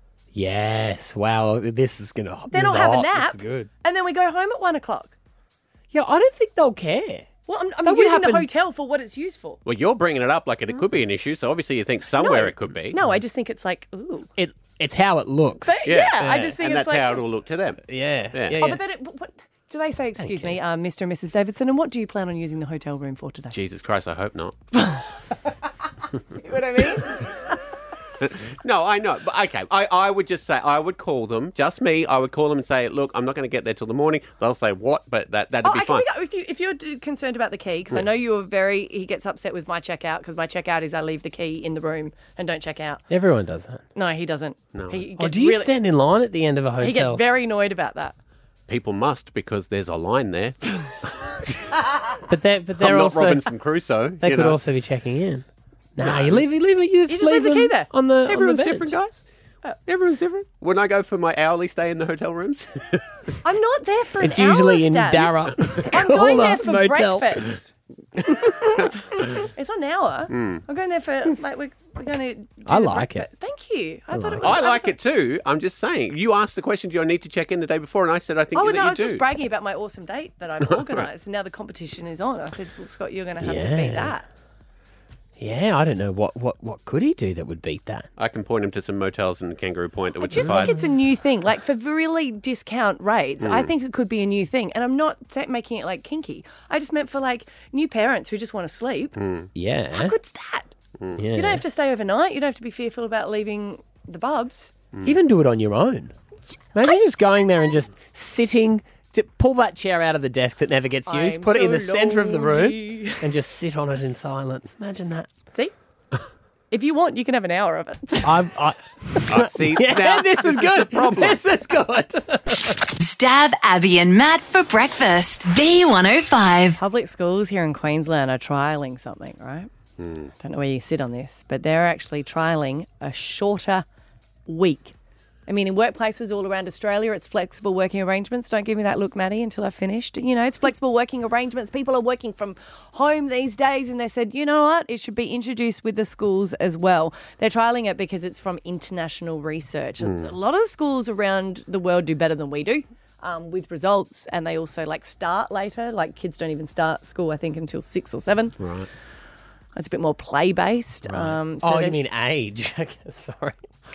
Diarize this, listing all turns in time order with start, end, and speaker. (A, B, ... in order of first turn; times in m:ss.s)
0:00.3-0:03.7 A
0:02.5-0:05.1 B
0:05.9-0:07.3 A
0:07.5-0:09.6 B
0:07.8-0:08.5 A
0:09.6-0:13.0 C
0:12.2-0:14.3 B
0:14.4-0:16.5 A
0:15.6-0:17.2 B
0:15.8-0:17.8 C
0:17.9-0:18.8 A
0:18.3-0:18.7 C
0:18.6-0:23.5 B
0:20.2-0:20.6 A
0:23.5-0:24.6 C
0:26.3-0:27.3 B
0:28.2-0:36.1 C
0:35.6-0:43.0 B
0:43.1-0:43.8 A
0:43.9-0:45.7 B
0:44.7-0:45.0 C
0:45.2-0:47.2 A
0:46.8-0:48.1 B
0:48.7-0:51.6 C
0:52.3-0:53.5 A
0:52.8-0:54.6 C
0:54.2-0:55.4 A
0:56.0-0:59.0 A
0:56.0-0:56.4 C
0:57.1-0:57.9 B
0:58.3-0:59.2 C
0:59.8-1:03.0 C
1:03.4-1:07.7 B
1:04.2-1:07.3 A
1:08.2-1:08.5 A
1:09.4-1:15.0 B
1:10.3-1:10.6 C
1:12.6-1:13.3 A
1:14.1-1:14.6 A
1:14.4-1:19.2 C
1:18.5-1:24.2 B
1:20.6-1:21.1 C
1:23.4-1:24.1 A
1:25.4-1:28.1 A
1:28.2-1:30.8 C
1:30.2-1:39.2 B
1:30.3-1:30.9 A
1:33.4-1:33.7 C
1:39.2-1:39.5 C
1:39.5-1:40.1 A
1:40.0-1:40.7 B
1:41.2-1:41.6 A
1:41.3-1:44.7 B
1:45.0-1:46.1 A
1:46.7-1:55.3 A
1:51.1-1:53.3 B
1:56.7-1:58.4 B
1:58.2-2:02.8 A
1:59.3-2:01.4 C
2:03.0-2:06.8 D
2:06.8-2:09.7 B
2:10.0-2:10.3 C
2:10.4-2:13.8 B
2:14.4-2:14.9 B
2:15.5-2:38.6 B
2:30.0-2:30.3 C
2:38.6-2:38.9 C
2:39.7-2:42.0 B
2:41.0-2:43.7 A